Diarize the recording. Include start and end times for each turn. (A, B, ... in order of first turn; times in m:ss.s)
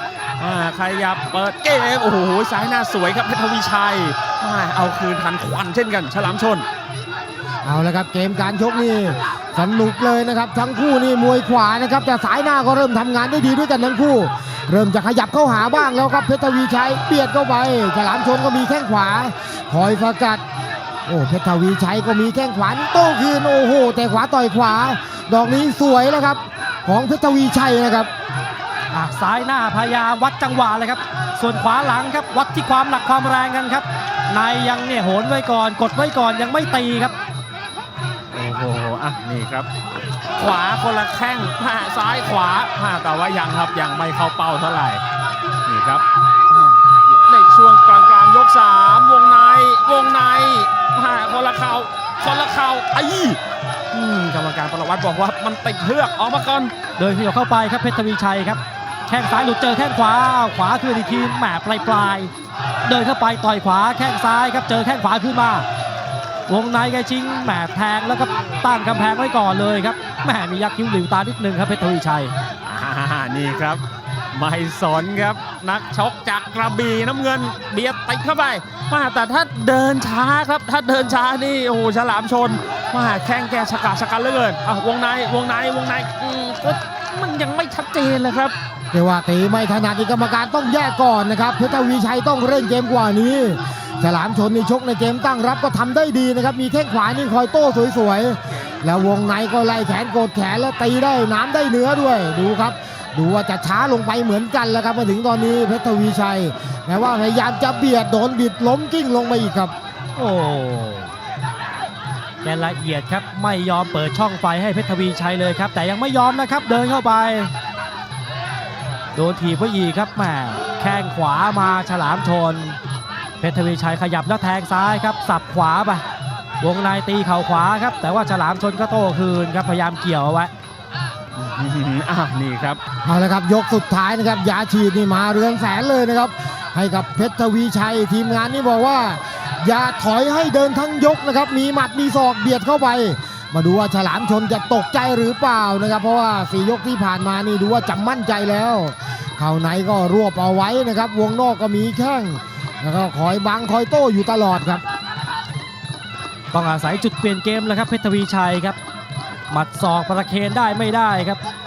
0:00.4-0:06.6 A
0:07.6-0:20.4 B
0:21.0-0:28.1 B
0:28.9-0:37.1 C
0:38.3-0:39.7 A
0:40.3-0:45.0 A
0:45.6-0:53.4 A
0:53.9-0:56.7 A
0:57.0-1:02.3 C
1:02.8-1:05.6 C
1:06.5-1:12.3 C
1:12.6-1:28.5 A
1:28.9-1:49.7 B
1:50.2-1:51.1 C
1:52.4-1:57.5 C
1:59.1-2:02.8 C
2:03.4-2:06.0 C
2:06.6-2:10.5 C
2:11.4-2:12.8 A
2:13.0-2:34.8 B
2:36.5-2:38.8 C
2:39.5-2:41.4 C